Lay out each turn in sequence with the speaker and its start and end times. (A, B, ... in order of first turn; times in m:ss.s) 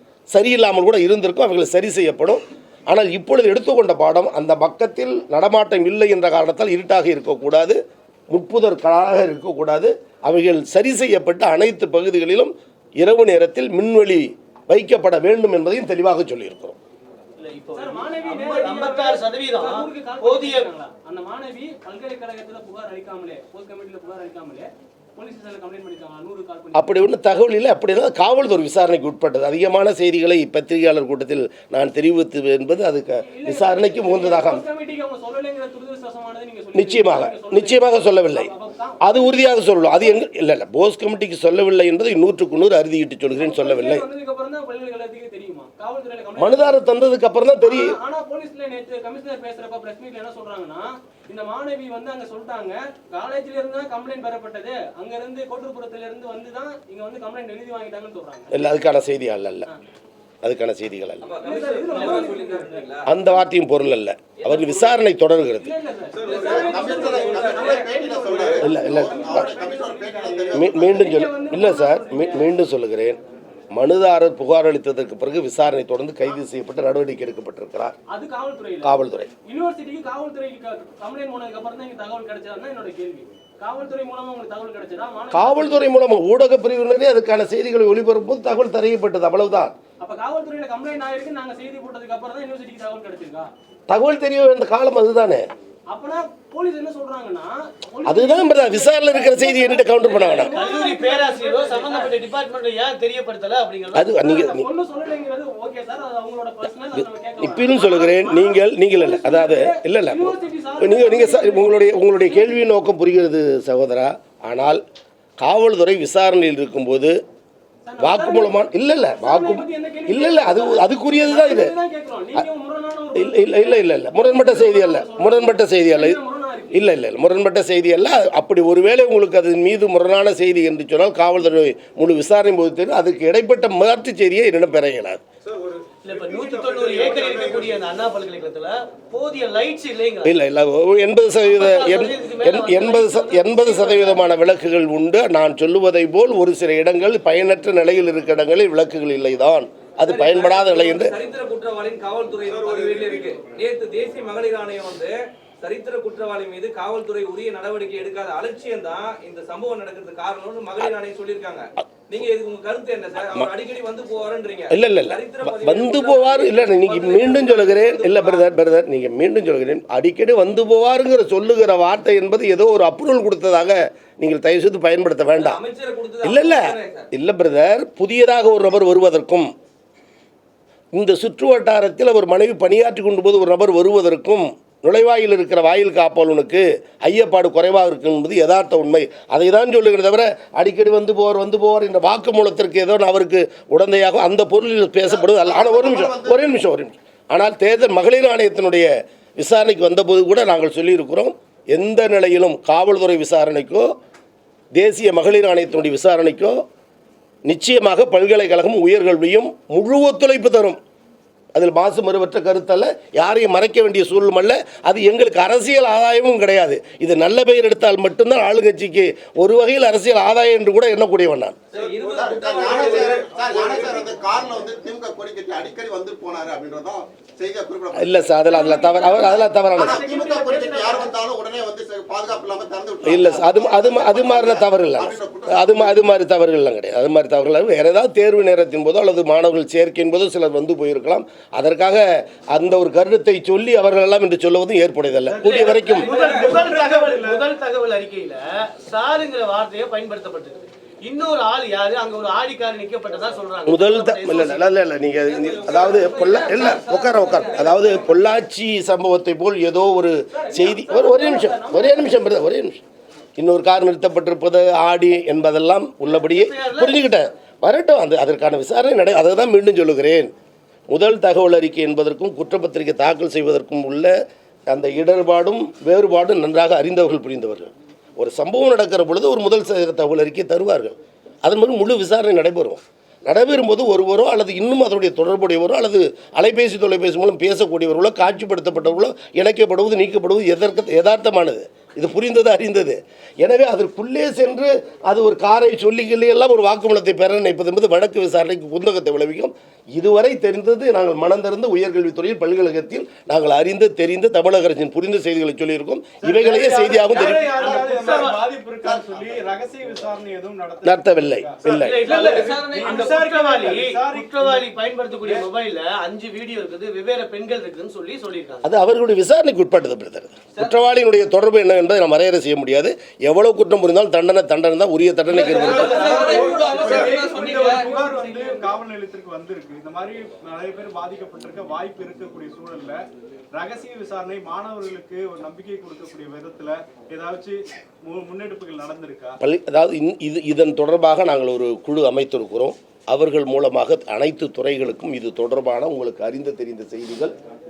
0:00.3-0:07.8 A
0:08.3-0:16.8 A
0:17.4-0:20.7 B
0:17.7-0:27.0 C
0:26.8-0:34.6 A
0:33.2-0:39.4 C
0:36.8-0:38.5 A
0:39.0-0:44.1 A
0:43.4-0:46.9 C
0:46.4-0:48.0 A
0:47.6-0:58.6 C
0:58.5-0:59.7 A
1:00.4-1:01.3 A
1:01.2-1:03.1 D
1:01.4-1:03.0 C
1:03.1-1:05.7 A
1:04.4-1:05.0 D
1:05.6-1:12.5 C
1:06.1-1:06.8 E
1:06.2-1:09.0 D
1:06.3-1:11.1 F
1:08.6-1:09.5 A
1:10.5-1:13.2 A
1:13.7-1:18.0 A
1:18.1-1:18.9 C
1:18.8-1:19.3 A
1:19.4-1:25.8 C
1:25.3-1:29.7 A
1:30.0-1:33.5 C
1:33.9-1:35.5 A
1:35.9-1:42.2 C
1:38.0-1:40.6 A
1:40.6-1:44.2 B
1:43.9-1:44.7 A
1:44.2-1:52.5 C
1:47.0-1:54.8 A
1:55.4-1:57.2 A
1:57.9-1:58.6 C
1:58.0-2:01.7 A
1:59.2-2:06.9 C
2:03.1-2:06.2 A
2:06.7-2:15.2 A
2:15.4-2:17.8 E
2:16.0-2:20.4 B
2:20.2-2:31.2 A
2:21.4-2:24.2 B
2:30.0-2:48.5 D
2:32.4-2:33.4 E
2:43.2-2:43.5 A
2:44.7-2:55.6 A
2:55.3-2:57.1 D
2:56.2-2:59.5 A
3:00.9-3:23.9 A
3:15.0-3:16.5 F
3:24.8-3:26.6 A
3:27.5-3:30.8 A
3:31.6-3:41.6 A
3:41.7-3:43.9 D
3:42.0-3:48.4 F
3:42.9-3:44.0 E
3:48.0-3:50.1 A
3:48.5-3:51.1 C
3:49.7-3:56.2 F
3:50.0-3:51.0 B
3:53.0-4:06.1 A
4:05.3-4:07.5 E
4:05.4-4:06.6 D
4:06.3-4:14.7 B
4:13.6-4:22.8 A
4:15.2-4:18.2 D
4:20.3-4:22.2 C
4:23.4-4:30.3 A
4:26.1-4:27.2 B
4:30.9-4:34.1 A
4:34.7-5:07.7 A
5:06.2-5:14.7 E
5:07.1-5:08.4 B
5:08.8-5:09.2 F
5:10.8-5:12.1 A
5:11.8-5:18.6 B
5:12.0-5:13.0 D
5:15.2-5:15.5 E
5:18.6-5:26.2 A
5:25.3-5:28.6 D
5:25.4-5:39.4 E
5:25.6-5:25.9 B
5:26.4-5:26.8 C
5:39.4-5:47.3 A